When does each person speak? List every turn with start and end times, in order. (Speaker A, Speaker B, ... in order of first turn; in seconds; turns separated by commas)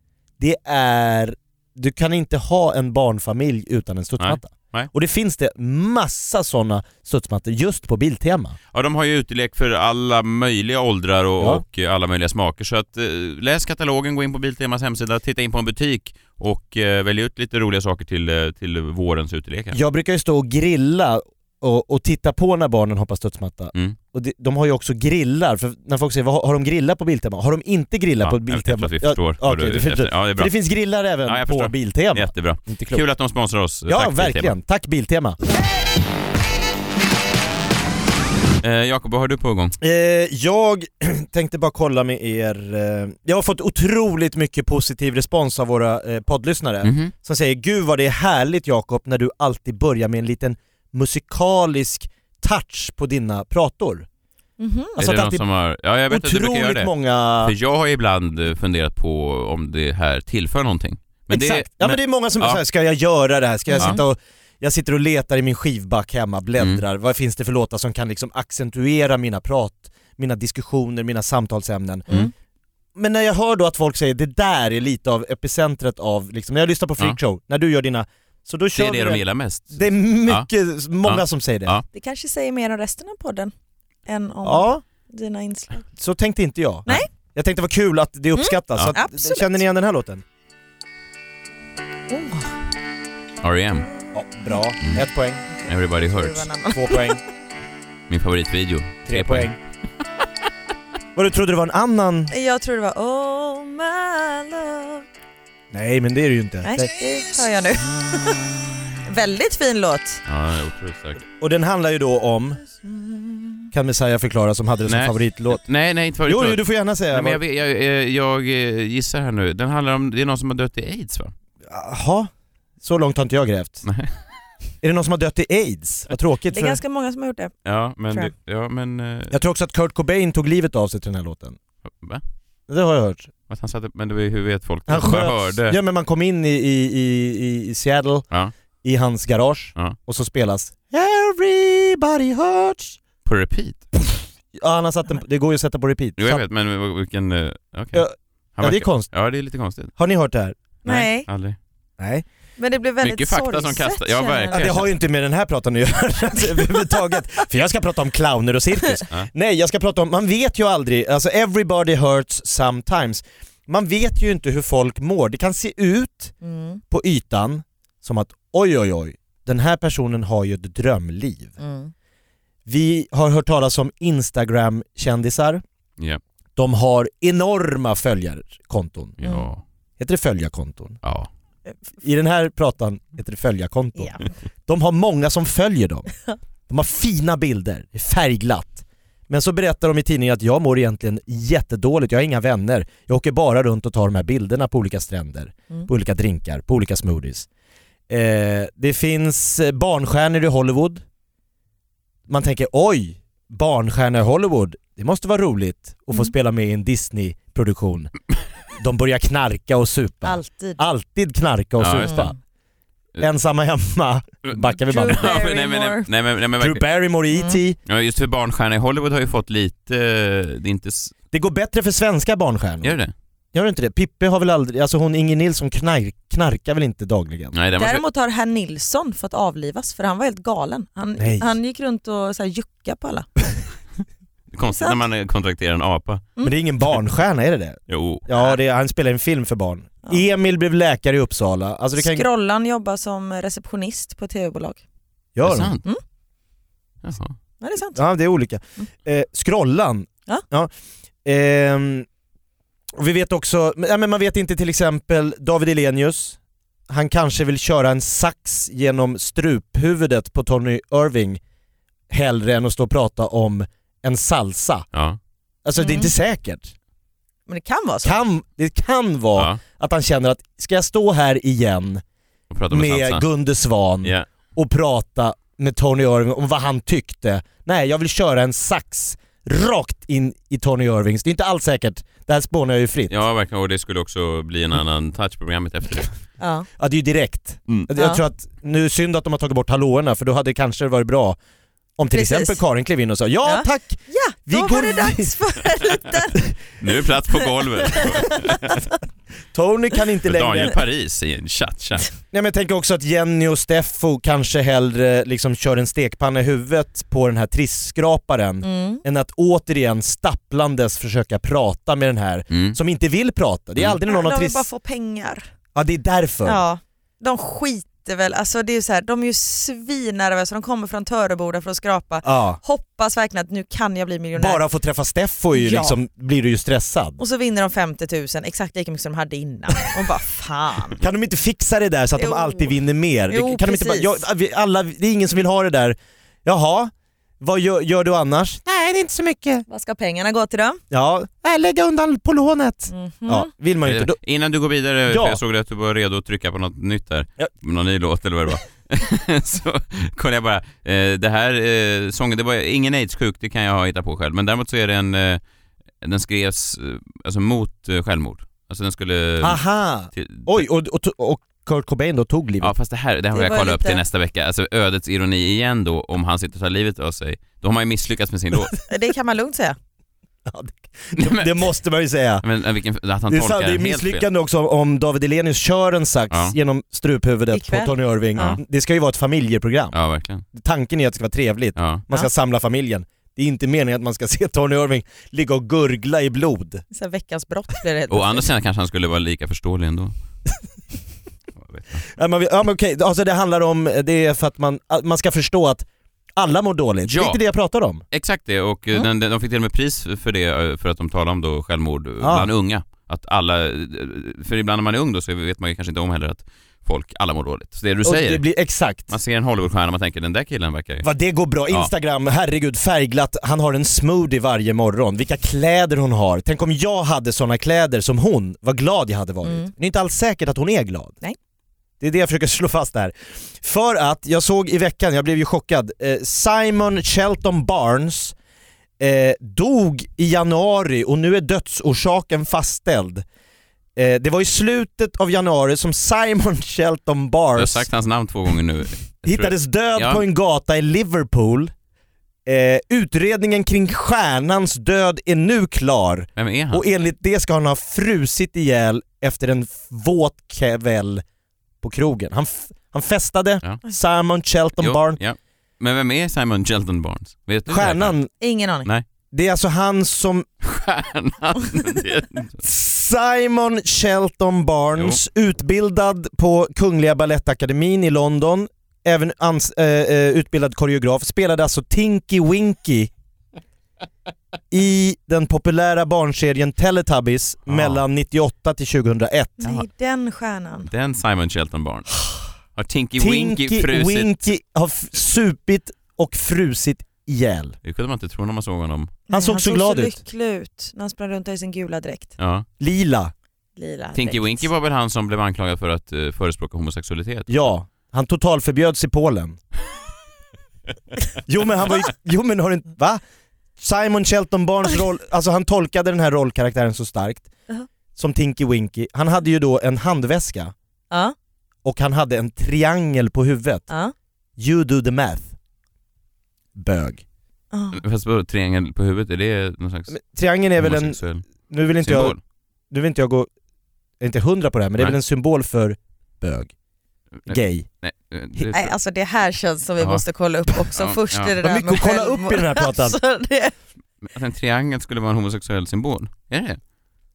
Speaker A: 0.4-8.6, Speaker B: 4.2-4.9, Speaker B: 8.7-19.8, Speaker A: 11.4-11.6, Speaker A: 19.7-33.0, Speaker B: 28.2-30.5, Speaker B: 31.2-34.5, Speaker A: 33.9-35.4, Speaker B: 38.6-39.8, Speaker A: 39.8-54.0, Speaker B: 46.8-47.1, Speaker C: 54.6-54.9, Speaker A: 55.0-55.4, Speaker B: 55.0-62.6, Speaker A: 56.1-57.5, Speaker A: 61.3-72.2, Speaker C: 63.7-64.0, Speaker A: 72.9-81.8, Speaker B: 78.7-80.5, Speaker B: 81.0-81.8, Speaker C: 81.9-83.5, Speaker C: 84.0-85.8, Speaker A: 84.4-84.8, Speaker A: 86.0-90.2, Speaker C: 88.3-89.5, Speaker C: 92.1-92.5, Speaker B: 93.4-93.9, Speaker A: 94.1-95.4, Speaker B: 95.7-96.5, Speaker C: 96.0-97.2, Speaker A: 96.7-97.2, Speaker B: 98.1-99.5, Speaker A: 99.1-99.5, Speaker A: 101.2-102.3, Speaker C: 102.3-105.0, Speaker A: 105.7-106.9, Speaker C: 106.6-108.4, Speaker C: 109.0-110.2, Speaker B: 110.2-111.2, Speaker A: 111.3-112.6, Speaker C: 112.9-113.6, Speaker A: 113.7-115.6, Speaker B: 114.8-121.3, Speaker A: 116.2-117.4, Speaker A: 121.7-122.3, Speaker A: 122.8-123.8, Speaker B: 123.8-124.1, Speaker A: 124.8-126.8, Speaker C: 126.5-127.5, Speaker B: 127.6-129.3, Speaker A: 129.3-131.6, Speaker B: 131.9-132.2, Speaker A: 132.7-133.3, Speaker B: 133.5-135.8, Speaker A: 134.9-138.2, Speaker A: 138.8-143.0, Speaker B: 143.2-143.8, Speaker A: 144.5-146.4, Speaker B: 146.2-149.9, Speaker A: 147.9-149.1, Speaker A: 149.9-150.5, Speaker C: 150.8-151.3, Speaker B: 150.8-151.6, Speaker A: 152.0-152.2, Speaker C: 152.6-154.7, Speaker B: 153.0-154.9, Speaker A: 154.5-166.3, Speaker C: 166.4-166.8, Speaker A: 166.9-171.5, Speaker C: 171.6-171.9, Speaker A: 172.7-175.6, Speaker A: 176.6-179.2, Speaker B: 179.2-179.6, Speaker A: 180.0-181.0, Speaker B: 181.0-181.3, Speaker A: 182.0-186.1, Speaker A: 186.7-197.5, Speaker A: 198.1-201.0, Speaker A: 202.3-208.1, Speaker A: 208.8-212.3, Speaker C: 210.2-210.8, Speaker B: 211.8-212.3, Speaker C: 212.0-212.3, Speaker A: 213.2-215.4, Speaker B: 214.5-216.8, Speaker C: 214.9-216.1, Speaker A: 216.6-217.8, Speaker C: 217.3-217.6, Speaker B: 217.9-221.1, Speaker A: 221.3-223.0, Speaker B: 222.8-223.1, Speaker A: 223.5-227.5, Speaker B: 227.5-228.0, Speaker C: 227.8-233.3, Speaker A: 231.2-231.5, Speaker B: 234.5-236.2, Speaker A: 236.4-242.2, Speaker B: 237.9-238.2, Speaker C: 241.9-244.8, Speaker A: 245.3-245.7, Speaker B: 245.4-245.8, Speaker B: 247.0-247.3, Speaker C: 247.6-248.0, Speaker A: 247.9-250.7, Speaker A: 251.2-252.1, Speaker A: 252.9-256.4, Speaker A: 256.9-261.4, Speaker A: 262.1-264.9, Speaker A: 265.6-266.7, Speaker C: 265.8-266.1, Speaker C: 267.5-268.2, Speaker A: 268.0-272.0, Speaker B: 272.5-273.2, Speaker A: 272.7-283.2, Speaker B: 283.1-286.1, Speaker C: 286.4-286.7, Speaker A: 286.8-291.4, Speaker C: 288.0-288.2, Speaker A: 292.0-295.3, Speaker C: 292.1-292.6, Speaker C: 293.4-296.4, Speaker B: 296.8-298.8, Speaker A: 299.5-300.8, Speaker B: 300.3-302.1, Speaker A: 302.3-314.7, Speaker C: 308.6-309.0, Speaker B: 312.5-312.8, Speaker C: 314.1-315.5, Speaker A: 315.7-316.6, Speaker C: 316.4-324.6, Speaker A: 322.2-322.6, Speaker A: 324.4-327.2, Speaker C: 325.5-326.0, Speaker C: 327.2-331.0, Speaker A: 331.0-339.6, Speaker C: 332.1-332.7, Speaker C: 333.3-334.2, Speaker C: 339.7-340.8, Speaker A: 340.9-344.1, Speaker C: 342.9-343.5, Speaker B: 343.8-355.4, Speaker A: 345.1-345.4, Speaker B: 356.0-359.6, Speaker A: 359.4-362.7, Speaker B: 360.1-360.6, Speaker B: 362.6-368.8, Speaker C: 363.3-364.0, Speaker C: 368.9-369.8, Speaker A: 370.4-372.4, Speaker B: 371.1-371.6, Speaker B: 372.4-374.2, Speaker A: 373.3-379.9, Speaker C: 377.5-378.6, Speaker B: 379.9-380.4, Speaker A: 380.5-386.8, Speaker B: 381.8-382.0, Speaker C: 386.9-388.5, Speaker B: 388.1-390.1, Speaker B: 391.6-392.0, Speaker A: 392.1-398.0, Speaker B: 397.1-397.4, Speaker B: 398.1-408.4, Speaker A: 402.2-402.5, Speaker A: 408.0-409.1, Speaker B: 409.1-411.1, Speaker A: 411.0-421.2, Speaker C: 419.4-419.7, Speaker A: 422.0-428.3, Speaker A: 429.0-433.2, Speaker A: 433.9-437.9, Speaker B: 437.6-440.2, Speaker A: 439.2-441.7, Speaker A: 442.4-451.2, Speaker B: 446.4-446.8, Speaker A: 451.8-455.2, Speaker B: 454.8-458.1, Speaker A: 457.7-458.3, Speaker C: 458.4-458.9, Speaker A: 459.3-460.5, Speaker B: 460.6-462.6, Speaker A: 462.6-473.1, Speaker A: 474.7-479.6, Speaker B: 477.7-478.0, Speaker C: 479.6-480.9, Speaker B: 480.9-482.1, Speaker B: 482.7-484.3, Speaker A: 483.2-487.7, Speaker B: 487.8-489.2, Speaker C: 489.3-492.3, Speaker A: 489.3-490.1, Speaker B: 492.4-492.6, Speaker A: 492.8-493.3, Speaker C: 493.8-494.6, Speaker B: 494.1-497.5, Speaker A: 497.5-499.6, Speaker A: 501.4-503.2, Speaker A: 503.8-507.5, Speaker A: 508.1-510.7, Speaker A: 511.8-513.9, Speaker C: 513.9-514.1, Speaker A: 514.6-515.5, Speaker A: 516.8-517.2, Speaker C: 517.7-518.0, Speaker B: 517.9-520.2, Speaker A: 520.1-522.4, Speaker B: 520.8-521.4, Speaker B: 522.0-522.4, Speaker A: 522.9-523.5, Speaker A: 524.2-526.7, Speaker B: 527.4-528.9, Speaker A: 527.5-527.9, Speaker C: 528.7-533.7, Speaker B: 530.9-531.5, Speaker A: 531.6-533.2, Speaker B: 534.2-536.8